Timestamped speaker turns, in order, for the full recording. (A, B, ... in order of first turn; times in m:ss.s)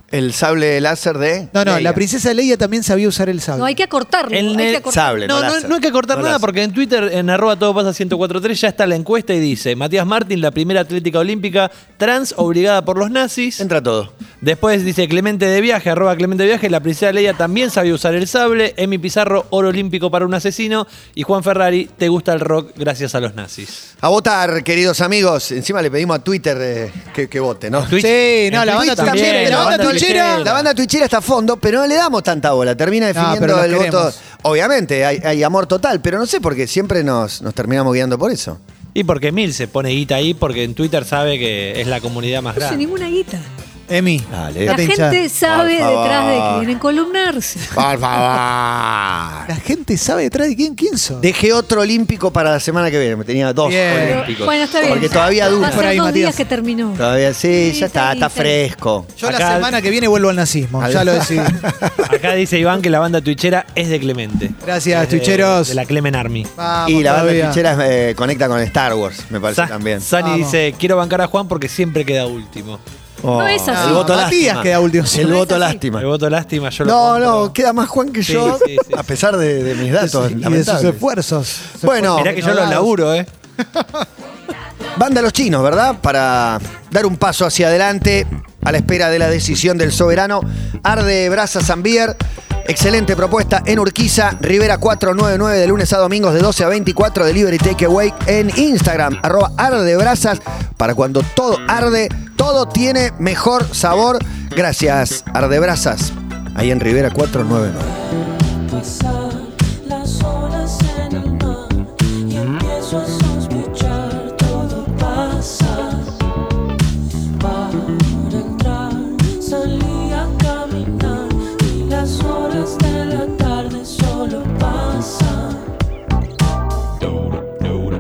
0:00.1-0:02.0 A
0:01.5-0:03.8 B
0:03.6-0:05.2 C
0:04.3-0:13.6 D
0:04.8-0:06.4 A
0:13.6-0:14.1 A
0:14.4-0:23.8 D
0:24.0-0:38.6 A
0:27.9-0:30.7 D
0:28.0-0:30.4 B
0:33.2-0:34.2 B
0:39.0-0:42.8 D
0:42.6-0:43.5 C
0:43.9-0:45.2 B
0:44.3-0:44.8 A
0:44.7-0:47.8 C
0:45.5-0:46.7 A
0:47.7-0:49.5 A
0:49.5-0:51.3 B
0:51.2-0:55.9 A
0:53.6-0:54.2 B
0:54.0-0:58.6 C
0:55.6-0:56.4 B
0:57.0-0:59.1 A
0:59.2-1:01.6 B
0:59.2-0:59.8 D
1:00.8-1:02.2 A
1:02.1-1:06.5 D
1:04.6-1:05.8 B
1:06.6-1:07.6 B
1:06.9-1:10.0 A
1:09.5-1:12.8 D
1:10.2-1:10.6 B
1:13.2-1:16.1 A
1:13.3-1:14.2 C
1:13.7-1:15.4 B
1:15.2-1:15.8 C
1:16.0-1:17.6 D
1:16.8-1:21.0 A
1:18.3-1:19.1 D
1:20.0-1:22.9 B
1:21.7-1:22.4 A
1:22.2-1:23.3 D
1:25.0-1:48.0 A
1:48.7-1:56.0 E
1:57.4-2:05.3 E